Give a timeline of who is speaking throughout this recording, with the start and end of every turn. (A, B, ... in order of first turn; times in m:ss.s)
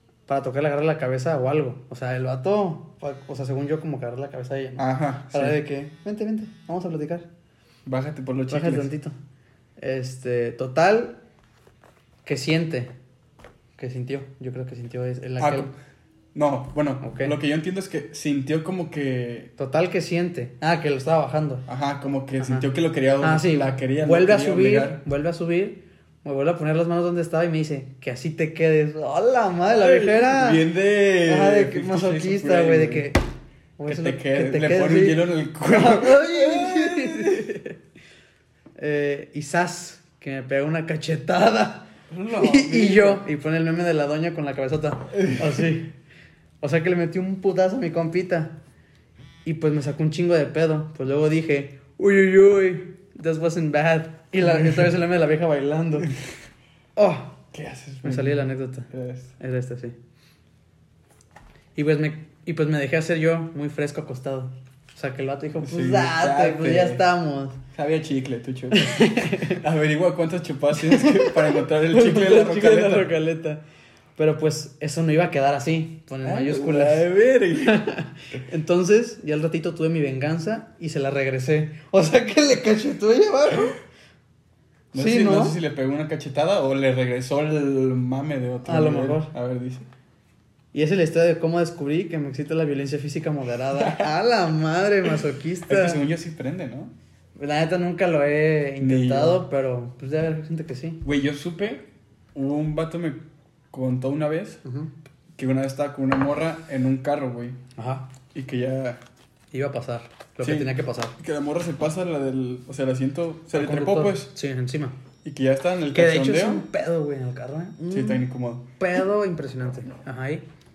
0:00.3-0:07.3 A
0:04.8-0:05.6 B
0:07.8-0:08.9 B
0:08.5-0:09.2 A
0:09.8-0:11.2 A
0:12.2-0:12.9 A
0:13.8-0:15.7 A
0:15.4-0:15.7 B
0:16.3-0:19.5 B
0:17.0-0:17.3 A
0:19.6-0:21.6 A
0:21.7-0:25.0 B
0:22.4-0:22.6 A
0:23.2-0:30.7 A
0:29.7-0:33.1 B
0:31.2-0:33.2 A
0:33.8-0:37.8 A
0:33.9-0:37.6 B
0:38.8-0:45.9 A
0:42.1-0:43.2 B
0:45.1-0:45.7 B
0:46.6-0:48.5 A
0:49.4-0:56.1 A
0:57.0-0:57.4 A
0:57.5-0:59.3 B
0:58.0-0:59.9 A
1:01.8-1:07.6 A
1:05.6-1:07.0 B
1:07.7-1:13.1 B
1:08.7-1:09.6 A
1:10.8-1:13.6 A
1:14.2-1:23.8 A
1:16.2-1:17.9 B
1:24.9-1:29.9 B
1:24.9-1:25.6 A
1:28.6-1:29.3 A
1:30.7-1:36.0 A
1:33.7-1:34.1 B
1:35.7-1:36.9 B
1:37.4-1:41.0 A
1:38.8-1:39.4 B
1:41.0-1:43.2 B
1:43.7-1:44.6 B
1:44.6-1:44.9 A
1:45.4-1:47.6 B
1:47.8-1:48.1 A
1:48.3-1:49.0 B
1:49.5-1:51.1 A
1:50.4-1:54.3 B
1:53.5-1:54.9 A
1:55.2-1:56.7 B
1:55.9-1:58.2 A
1:57.9-1:58.6 B
1:58.8-2:00.4 A